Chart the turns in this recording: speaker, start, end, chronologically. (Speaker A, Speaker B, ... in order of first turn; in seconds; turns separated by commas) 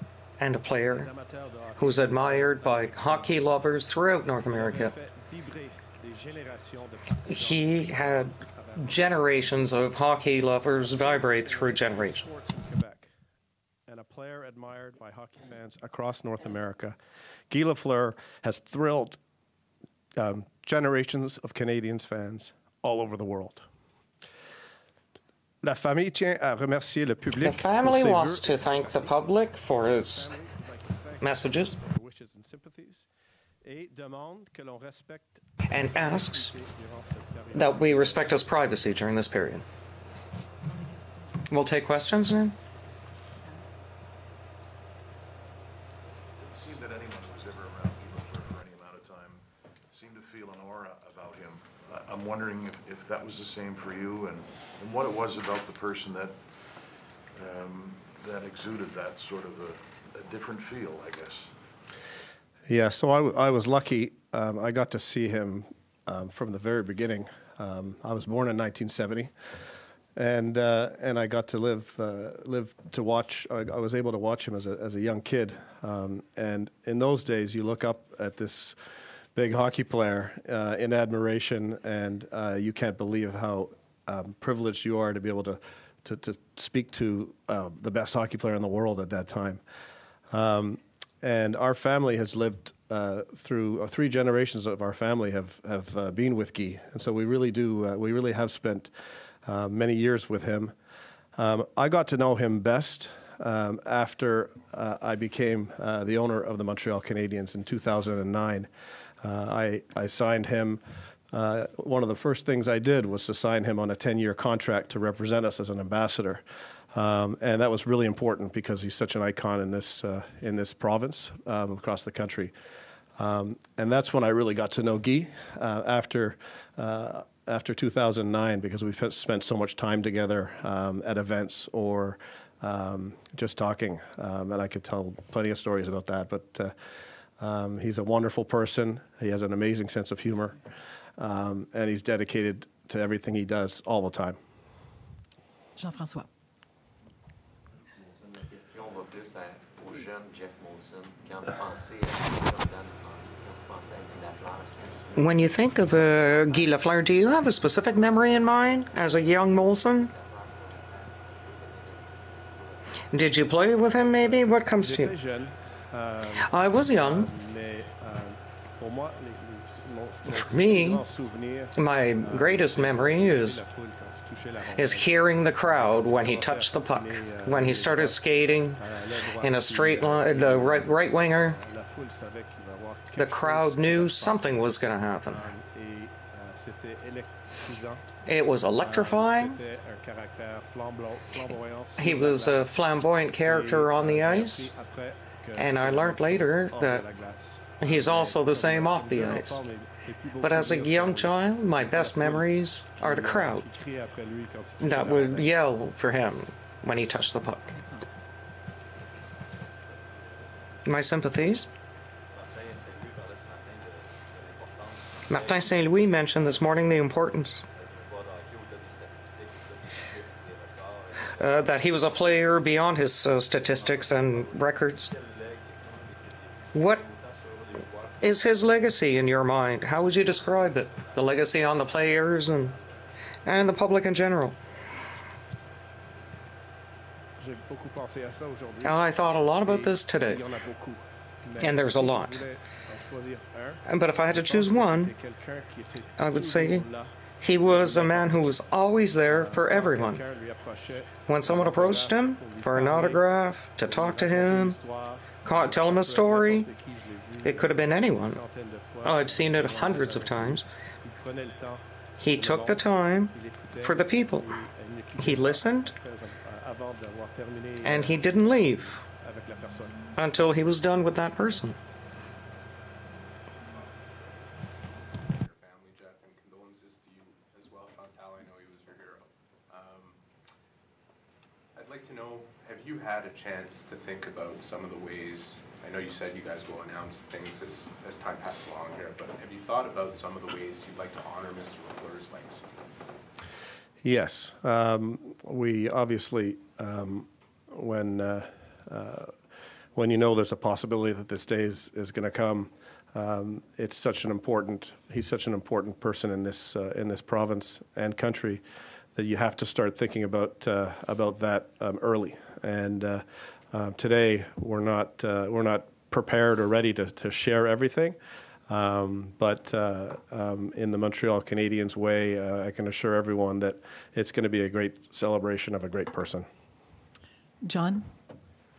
Speaker A: 0.4-1.1, Speaker B: 0.8-3.5, Speaker A: 1.8-4.9, Speaker B: 4.4-9.6, Speaker A: 7.2-12.2, Speaker B: 10.8-13.1, Speaker B: 13.9-17.0, Speaker B: 17.5-19.2, Speaker B: 20.2-23.6, Speaker B: 25.6-33.1, Speaker A: 27.4-30.3, Speaker A: 31.2-31.8, Speaker B: 33.6-38.6, Speaker A: 35.7-36.5, Speaker A: 37.5-39.6, Speaker C: 40.7-41.4, Speaker A: 41.5-42.5, Speaker D: 46.4-56.5, Speaker D: 57.3-61.5, Speaker B: 62.7-69.3, Speaker B: 70.2-78.8, Speaker B: 79.3-89.6, Speaker B: 90.3-98.9, Speaker B: 99.5-100.7, Speaker B: 101.3-108.7, Speaker B: 109.2-110.8, Speaker B: 111.3-116.4, Speaker B: 116.9-122.5, Speaker B: 123.2-136.7, Speaker B: 137.4-140.6, Speaker B: 141.2-144.4, Speaker C: 145.8-146.3, Speaker E: 147.8-163.6, Speaker A: 155.2-160.1, Speaker A: 163.1-165.2, Speaker B: 164.2-188.1, Speaker A: 166.3-167.3, Speaker A: 170.2-171.0, Speaker A: 171.8-173.6, Speaker A: 174.7-178.8, Speaker A: 179.4-181.6, Speaker A: 183.1-185.5, Speaker A: 188.2-189.6, Speaker B: 188.8-192.8, Speaker A: 192.0-194.7, Speaker B: 193.4-205.5, Speaker A: 195.6-197.0, Speaker A: 197.8-199.6, Speaker A: 200.4-203.6, Speaker A: 204.8-207.8, Speaker C: 207.7-208.1, Speaker E: 209.4-210.8, Speaker A: 210.8-211.7, Speaker E: 212.3-216.7, Speaker A: 215.3-217.6, Speaker E: 217.7-222.4, Speaker A: 221.3-225.1, Speaker E: 223.6-228.8, Speaker A: 226.7-227.0, Speaker A: 228.2-232.8, Speaker E: 229.4-233.0, Speaker A: 233.4-234.6, Speaker B: 237.4-270.1, Speaker A: 238.8-240.4, Speaker A: 241.6-242.4, Speaker A: 243.9-245.1, Speaker A: 246.2-246.9, Speaker A: 247.4-250.2, Speaker A: 251.2-254.8, Speaker A: 255.4-256.7, Speaker A: 257.4-258.4, Speaker A: 259.0-260.6, Speaker A: 262.2-264.5, Speaker A: 265.2-265.9, Speaker A: 267.8-269.0, Speaker A: 270.1-271.8, Speaker F: 273.6-280.2, Speaker F: 281.8-292.7, Speaker B: 294.0-299.3, Speaker B: 299.9-308.6, Speaker B: 309.1-318.2, Speaker B: 318.7-326.5, Speaker C: 327.6-328.1